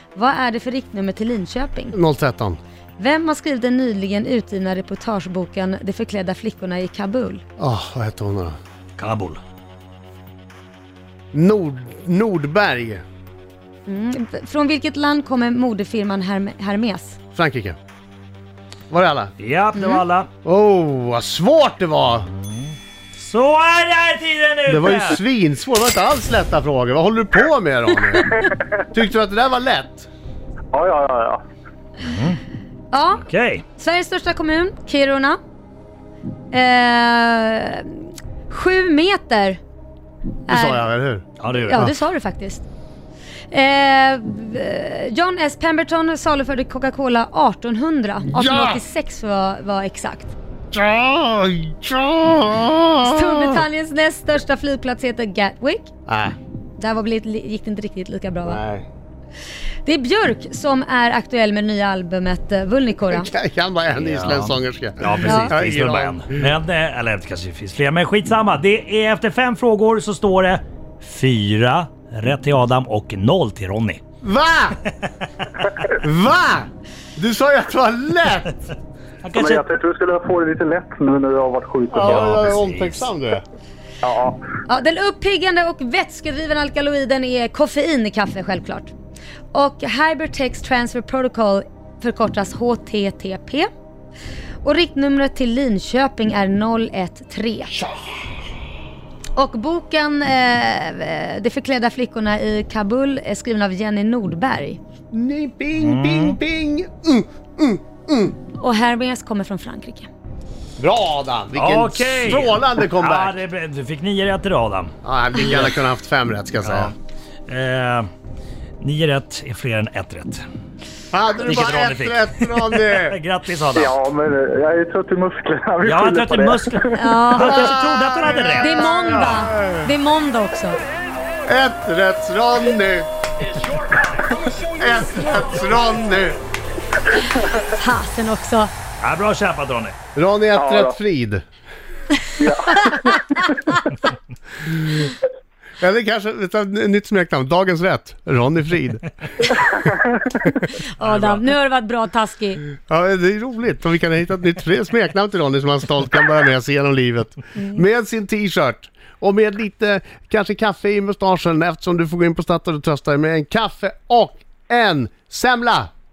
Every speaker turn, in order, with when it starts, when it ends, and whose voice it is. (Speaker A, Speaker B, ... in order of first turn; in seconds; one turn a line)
Speaker A: 0.1-2.0
Speaker B: 1.9-2.6
Speaker A: 3.0-7.4
Speaker B: 7.6-8.6
Speaker C: 9.0-9.4
Speaker B: 11.3-13.0
Speaker A: 13.9-17.2
Speaker B: 17.4-17.8
Speaker B: 18.9-19.3
Speaker C: 19.4-20.3
Speaker A: 19.8-20.0
Speaker B: 20.4-22.3
Speaker C: 22.3-25.2
Speaker B: 24.7-30.1
Speaker D: 30.7-31.4
Speaker C: 32.0-32.4
Speaker A: 32.9-33.2
Speaker C: 33.2-33.6
Speaker A: 33.8-35.4
Speaker A: 36.5-39.6
Speaker A: 40.5-40.8
Speaker B: 40.5-42.0
Speaker C: 41.4-41.9
Speaker A: 41.5-42.7
Speaker A: 43.5-50.4
Speaker B: 48.3-48.8
Speaker B: 50.7-53.6
Speaker A: 53.0-55.9
Speaker B: 56.1-56.4
Speaker A: 56.8-58.6
Speaker B: 58.4-58.9
Speaker A: 59.9-63.3
Speaker B: 63.0-66.4
Speaker C: 63.9-74.0
Speaker A: 65.2-65.5
Speaker B: 74.2-74.8
Speaker B: 75.9-78.6
Speaker C: 79.2-79.7
Speaker D: 79.3-82.4
Speaker B: 81.9-83.5
Speaker C: 82.0-83.1
Speaker D: 84.0-84.4
Speaker A: 84.7-88.9
Speaker A: 89.5-93.7
Speaker A: 94.6-97.7
Speaker A: 99.4-104.8
Speaker B: 105.1-108.4
Speaker C: 105.8-106.4
Speaker A: 108.6-110.1
Speaker B: 110.8-113.4
Speaker C: 111.5-115.6
Speaker B: 115.0-116.9
Speaker C: 116.6-117.0
Speaker C: 117.5-118.1
Speaker C: 118.8-120.4
Speaker B: 121.1-123.2
Speaker C: 121.4-123.9
Speaker D: 123.7-127.0
Speaker C: 125.8-129.5
Speaker A: 126.9-127.8
Speaker B: 127.4-129.9
Speaker A: 128.6-130.8
Speaker B: 131.5-133.1
Speaker B: 134.5-136.4
Speaker A: 137.5-138.7
Speaker C: 139.0-139.9
Speaker B: 140.2-141.4
Speaker D: 140.6-141.0
Speaker D: 142.4-143.5
Speaker B: 145.8-149.4
Speaker D: 149.6-150.4
Speaker A: 150.9-152.6
Speaker C: 151.0-151.5
Speaker B: 152.8-165.9